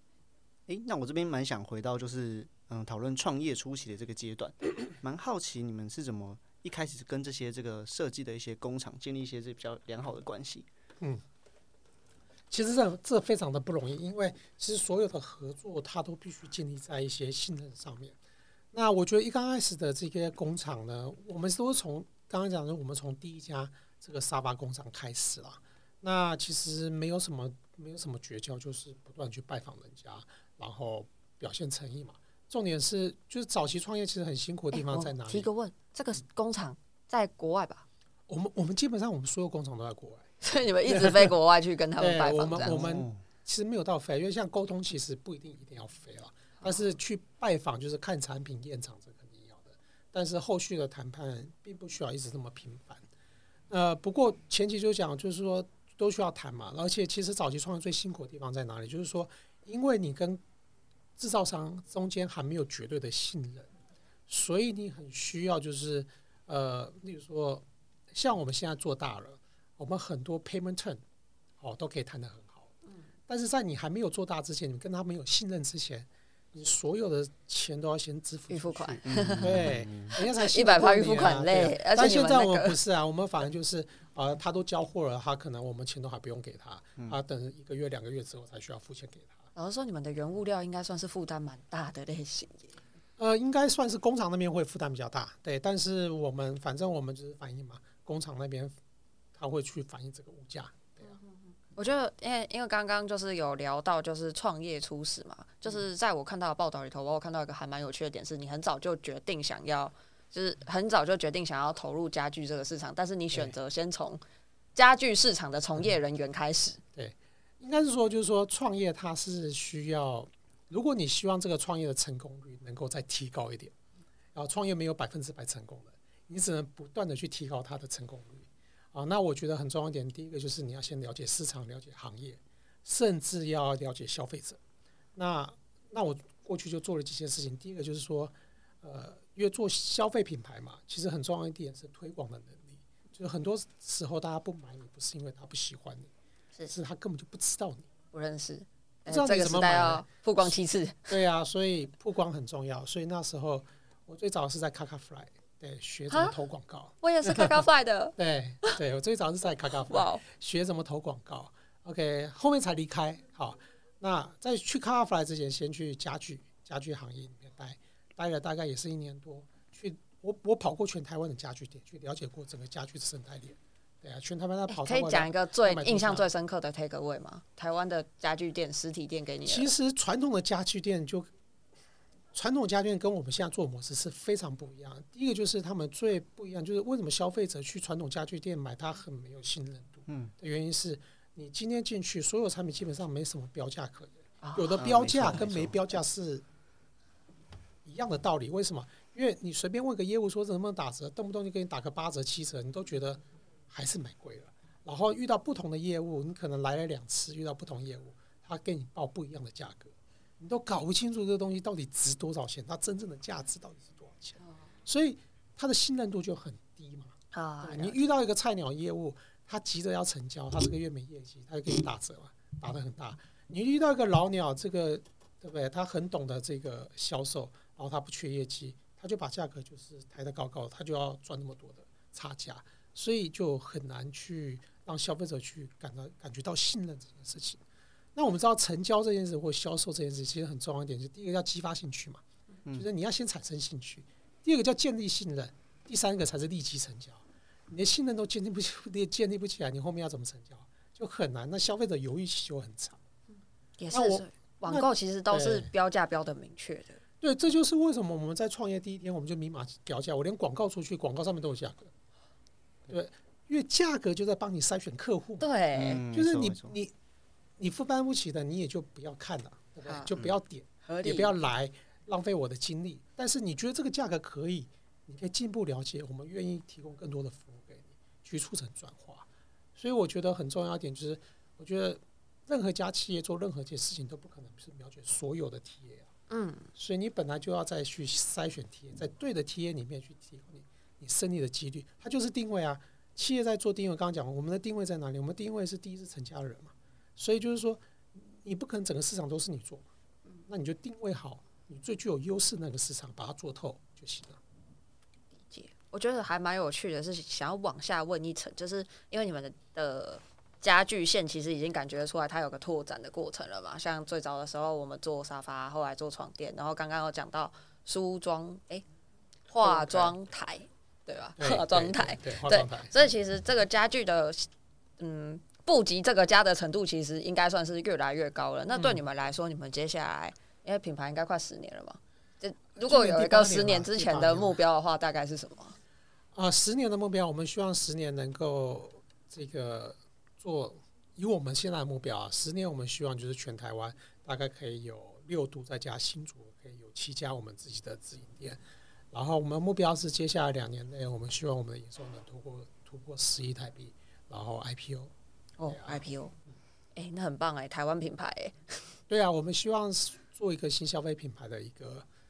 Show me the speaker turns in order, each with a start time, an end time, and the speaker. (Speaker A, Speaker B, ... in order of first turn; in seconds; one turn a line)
Speaker A: 0.7-10.7
Speaker B: 12.5-18.2
Speaker B: 18.7-35.5
Speaker C: 34.7-37.9
Speaker B: 38.3-40.3
Speaker C: 40.4-42.9
Speaker B: 40.9-41.3
Speaker B: 42.0-53.0
Speaker A: 42.7-43.2
Speaker B: 53.7-60.4
Speaker B: 61.2-63.7
Speaker B: 64.3-71.0
Speaker B: 71.6-72.7
Speaker B: 73.3-89.4
Speaker C: 78.5-79.6
Speaker A: 79.0-80.1
Speaker C: 80.1-82.8
Speaker C: 89.5-92.8
Speaker B: 93.2-98.8
Speaker B: 99.3-101.2
Speaker C: 101.8-114.2
Speaker C: 114.8-116.8
Speaker B: 117.0-123.7
Speaker B: 124.3-134.6
Speaker B: 135.2-146.1
Speaker B: 146.7-147.9
Speaker C: 148.1-151.1
Speaker B: 149.1-150.5
Speaker B: 151.1-157.6
Speaker C: 157.0-158.8
Speaker B: 158.2-176.3
Speaker C: 159.9-160.2
Speaker C: 174.7-179.7
Speaker B: 179.4-181.3
Speaker B: 182.3-196.4
Speaker A: 190.1-190.3
Speaker C: 194.4-194.8
Speaker A: 194.7-195.8
Speaker B: 197.8-237.6
Speaker C: 217.3-218.0
Speaker B: 238.2-253.0
Speaker C: 253.8-257.0
Speaker B: 253.9-255.7
Speaker B: 257.2-261.9
Speaker B: 262.9-265.5
Speaker C: 265.4-266.0
Speaker A: 265.7-266.8
Speaker B: 266.1-266.9
Speaker B: 267.6-286.1
Speaker C: 269.9-270.1
Speaker C: 270.9-271.3
Speaker C: 286.3-286.7
Speaker B: 286.8-299.9
Speaker B: 300.5-304.4
Speaker C: 305.5-318.8
Speaker C: 319.5-324.5
Speaker B: 319.6-320.1
Speaker B: 321.4-322.9
Speaker C: 325.0-335.8
Speaker B: 332.8-334.6
Speaker B: 336.3-348.6
Speaker B: 349.1-355.1
Speaker C: 355.6-356.3
Speaker B: 355.7-356.0
Speaker C: 356.9-358.9
Speaker B: 359.1-362.1